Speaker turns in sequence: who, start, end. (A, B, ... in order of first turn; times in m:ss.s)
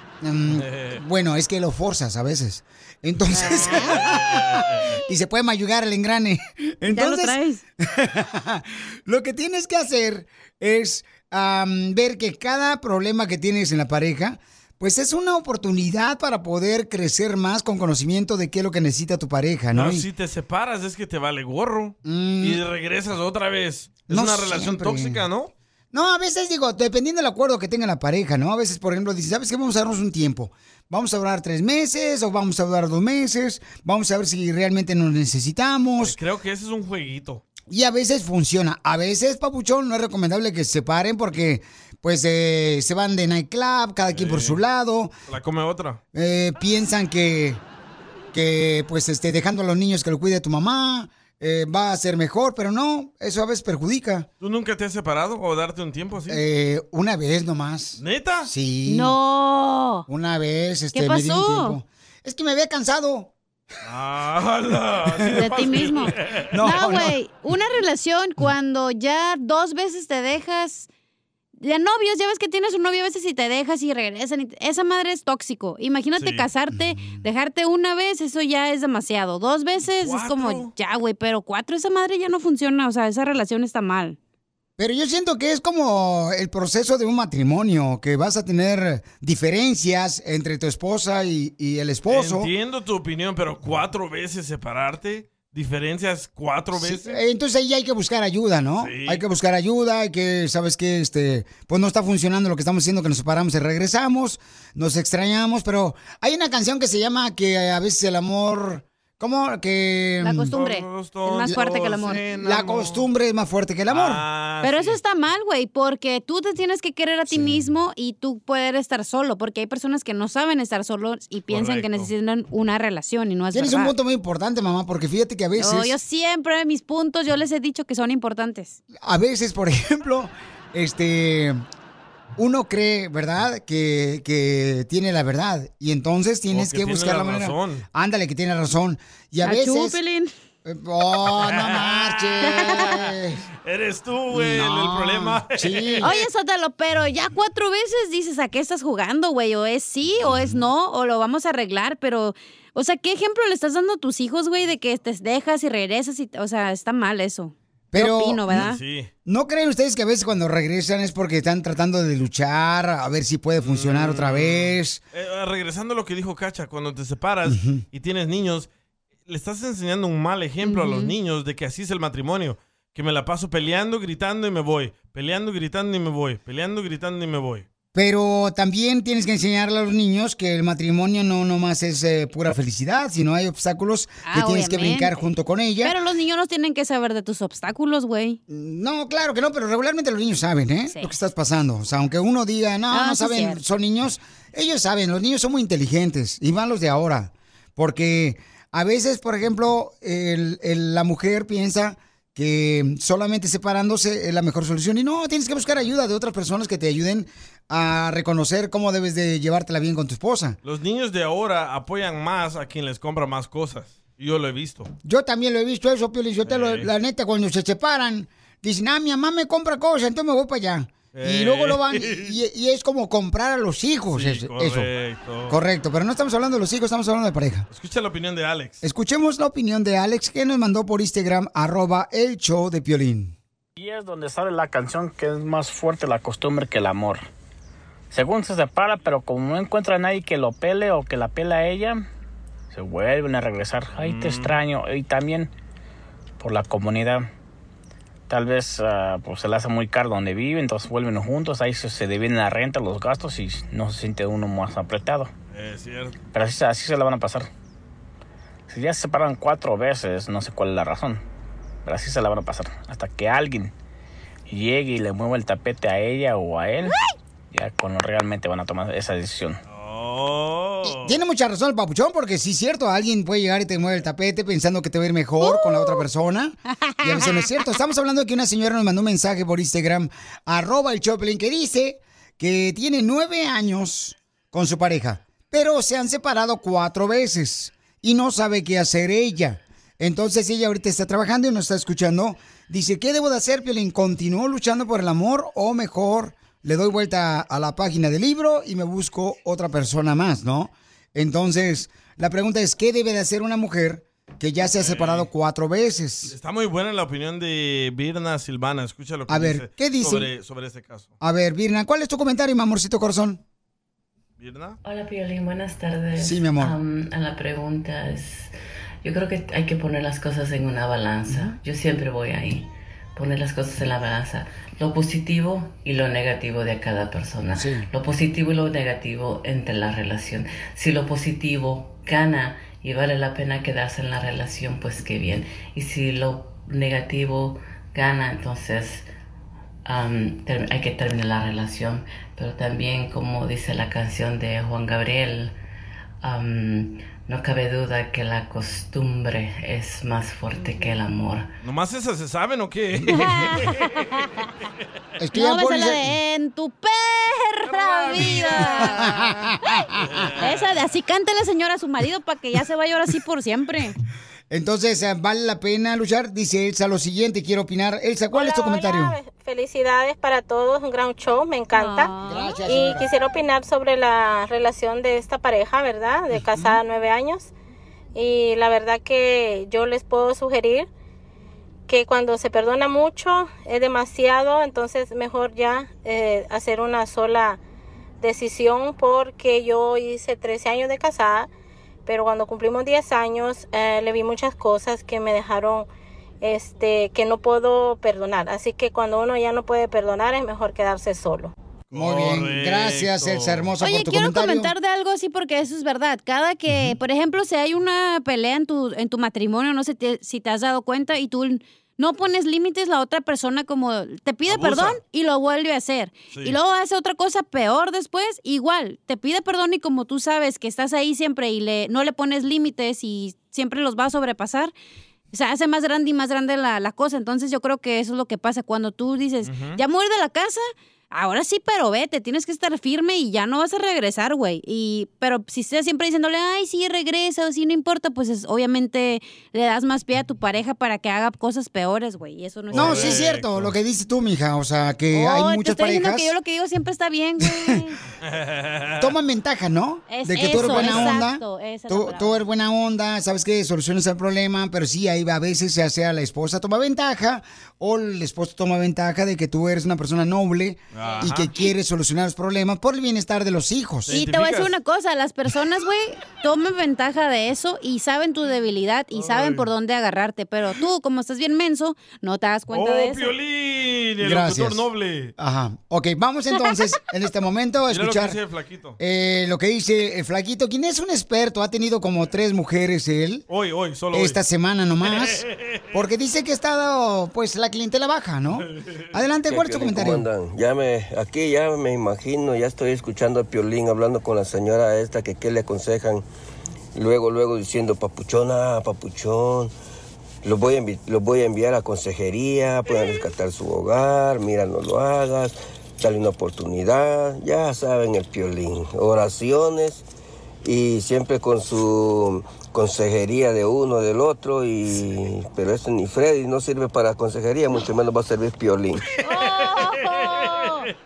0:00.2-0:20.0 A
0:00.5-0:01.0 B
0:03.8-0:04.9 B
0:06.9-0:07.6 C
0:19.7-0:25.5 B
0:22.0-0:22.6 A
0:24.1-0:25.2 A
0:25.9-0:36.2 A
0:36.0-0:37.4 B
0:37.7-0:45.1 A
0:44.1-0:44.6 B
0:45.3-0:46.0 B
0:46.1-0:47.6 A
0:48.3-0:54.3 A
0:54.4-0:56.4 B
0:56.3-0:59.1 A
0:58.0-0:58.5 B
0:58.9-1:00.1 C
1:00.1-1:03.3 A
1:00.9-1:01.8 C
1:03.8-1:06.6 B
1:05.3-1:10.9 C
1:06.5-1:07.1 A
1:11.6-1:24.2 C
1:16.2-1:16.5 B
1:16.7-1:17.2 A
1:19.9-1:20.7 B
1:24.8-1:32.5 A
1:32.1-1:37.2 B
1:36.8-1:50.5 A
1:38.8-1:39.2 B
1:50.2-1:52.2 C
1:50.5-1:53.0 B
1:51.5-1:54.2 A
1:53.9-1:55.0 B
1:54.6-2:03.9 C
1:57.3-1:57.6 A
2:01.5-2:02.1 B
2:03.5-2:05.9 A
2:05.6-2:08.8 C
2:09.0-2:11.6 A
2:12.4-2:20.0 A
2:16.5-2:17.8 B
2:19.4-2:20.3 C
2:20.6-2:23.4 A
2:21.3-2:22.7 B
2:23.6-2:26.2 B
2:24.3-2:26.1 A
2:26.0-2:38.8 C
2:37.9-2:38.5 A
2:38.5-2:39.1 B
2:39.2-2:45.0 A
2:43.6-2:48.7 B
2:47.4-2:47.8 A
2:49.3-2:57.6 B
2:50.6-2:51.1 C
2:57.9-3:05.9 A
3:04.2-3:05.1 C
3:05.8-3:08.4 C
3:08.5-3:30.6 A
3:12.9-3:13.6 C
3:30.6-3:34.9 B
3:35.0-3:44.9 A
3:36.4-3:36.9 B
3:41.1-3:42.3 B
3:44.1-3:45.6 B
3:45.5-3:47.7 A
3:47.7-3:48.8 B
3:48.8-3:53.3 A
3:53.8-3:57.2 D
3:58.1-4:02.1 D
4:02.7-4:05.5 D
4:03.9-4:04.5 B
4:06.4-4:07.3 D
4:08.3-4:15.3 D
4:15.5-4:16.2 B
4:16.3-4:17.5 D
4:18.7-4:21.2 D
4:21.8-4:23.7 D
4:24.5-4:27.0 D
4:27.5-4:29.6 D
4:29.7-4:31.2 B
4:30.8-5:06.3 A
4:35.4-4:36.0 C
5:04.7-5:05.3 B
5:06.3-5:11.1 B
5:09.3-5:10.3 A
5:11.2-5:13.4 A
5:14.4-5:14.8 B
5:14.8-5:18.5 E
5:16.1-5:16.8 A
5:19.0-5:39.0 E
5:21.3-5:21.5 A
5:27.6-5:27.9 A
5:39.8-5:45.6 E
5:46.2-5:51.5 E
5:51.6-5:53.9 B
5:53.1-5:54.2 C
5:55.2-5:56.0 A
5:55.3-5:59.0 C
5:57.7-5:59.2 B
5:58.8-5:59.6 A
6:00.0-6:00.6 B
6:00.4-6:03.9 C
6:04.5-6:09.1 A
6:08.3-6:12.1 F
6:11.7-6:12.6 C
6:12.2-6:13.1 A
6:12.6-6:17.5 F
6:18.1-6:20.9 F
6:21.9-6:27.6 F
6:28.2-6:31.5 F
6:32.0-6:35.9 F
6:36.4-6:41.5 F
6:41.9-6:43.7 B
6:41.9-6:44.7 A
6:43.8-7:04.7 C
6:54.4-6:55.0 B
6:56.3-6:56.6 B
7:05.3-7:23.2 C
7:09.4-7:09.8 B
7:22.7-7:23.7 B
7:22.7-7:26.3 A
7:25.1-7:28.0 C
7:28.2-7:29.1 B
7:29.0-7:44.1 A
7:30.1-7:32.4 C
7:30.5-7:31.1 B
7:40.9-7:41.5 B
7:41.0-7:41.4 C
7:44.0-7:44.7 B
7:44.1-7:53.3 C
7:49.1-7:49.7 B
7:52.7-7:55.3 B
7:54.2-7:54.8 A
7:55.4-7:58.4 A
7:57.9-7:59.0 B
7:59.0-8:03.4 A
8:03.5-8:04.4 B
8:04.1-8:10.3 A
8:05.0-8:05.8 B
8:09.5-8:16.2 G
8:16.9-8:19.7 G
8:20.4-8:30.0 G
8:30.6-8:39.0 G
8:39.2-8:40.9 C